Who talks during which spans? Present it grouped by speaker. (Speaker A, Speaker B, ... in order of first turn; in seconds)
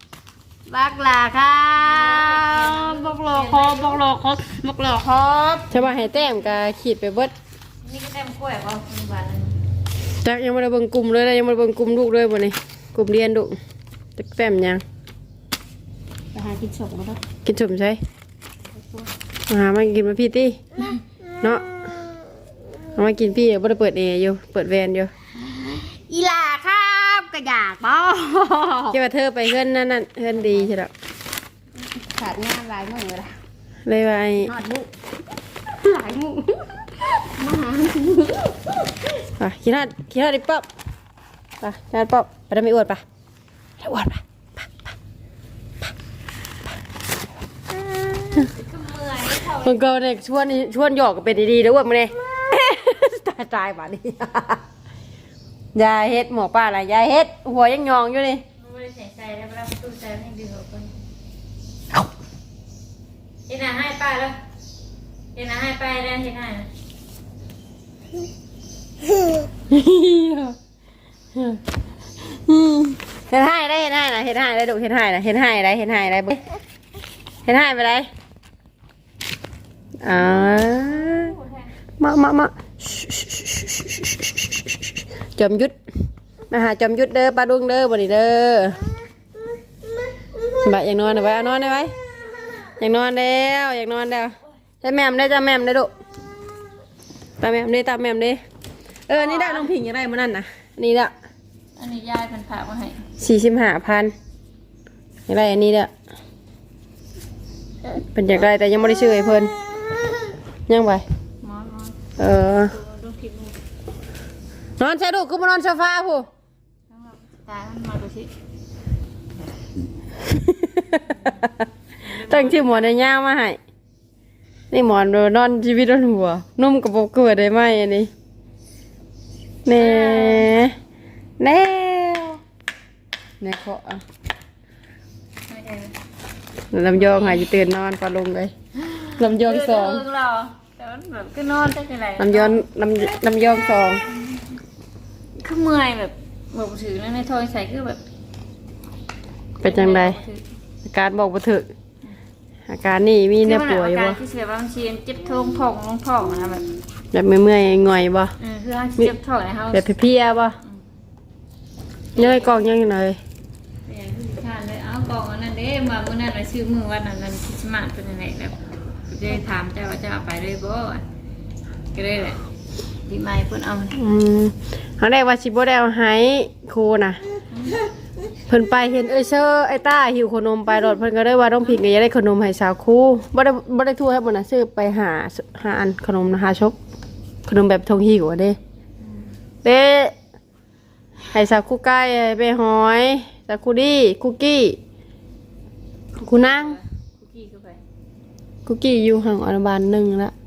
Speaker A: 0.7-5.7, 16.3-17.2, 18.7-19.1, 25.4-29.0, 30.3-30.7, 31.8-33.4, 34.4-34.9, 35.7-38.9
Speaker B: 1.8-4.0, 5.8-6.5, 7.8-9.6, 48.4-49.8, 58.6-61.0, 63.5-64.4, 65.3-66.7, 80.5-81.7, 99.2-99.7, 101.8-103.0, 111.4-112.0, 112.7-113.6, 116.9-118.3, 121.2-121.4, 122.0-122.9, 129.7-130.5, 135.5-135.9, 138.8-142.6, 145.4-148.0, 149.6-150.4, 153.4-156.7, 158.4-159.9, 162.2-162.6, 163.9-171.0, 171.9-172.4, 173.1-174.0, 177.5-177.8, 189.0-189.3, 196.2-197.8
Speaker C: 5.7-7.3, 10.2-13.6, 14.2-14.8, 17.4-18.0, 19.5-20.6, 21.4-21.7, 22.9-25.1, 28.9-30.9, 33.9-34.5, 39.4-40.6, 41.6-43.0, 43.8-44.7, 49.6-54.6, 55.7-58.4, 69.7-70.5, 71.3-71.6, 72.3-76.4, 77.5-78.1, 80.0-81.3, 82.0-85.7, 86.5-88.8, 90.5-91.9, 92.7-95.9, 97.4-98.4, 99.1-101.1, 103.2-104.1, 105.3-105.9, 108.1-109.5, 110.7-111.0, 112.2-112.7, 114.8-116.3, 120.2-121.5, 122.1-123.6, 124.7-128.1, 129.6-130.7, 131.4-132.4, 133.4-134.0, 136.7-138.5, 139.1-140.0, 142.2-144.0, 149.6-150.2, 150.8-151.7, 152.7-154.2, 157.1-158.3, 159.7-160.6, 162.2-163.2, 173.9-177.2, 178.5-186.8, 187.4-188.6, 189.6-190.1, 191.3-194.8, 196.2-196.8, 198.7-200.3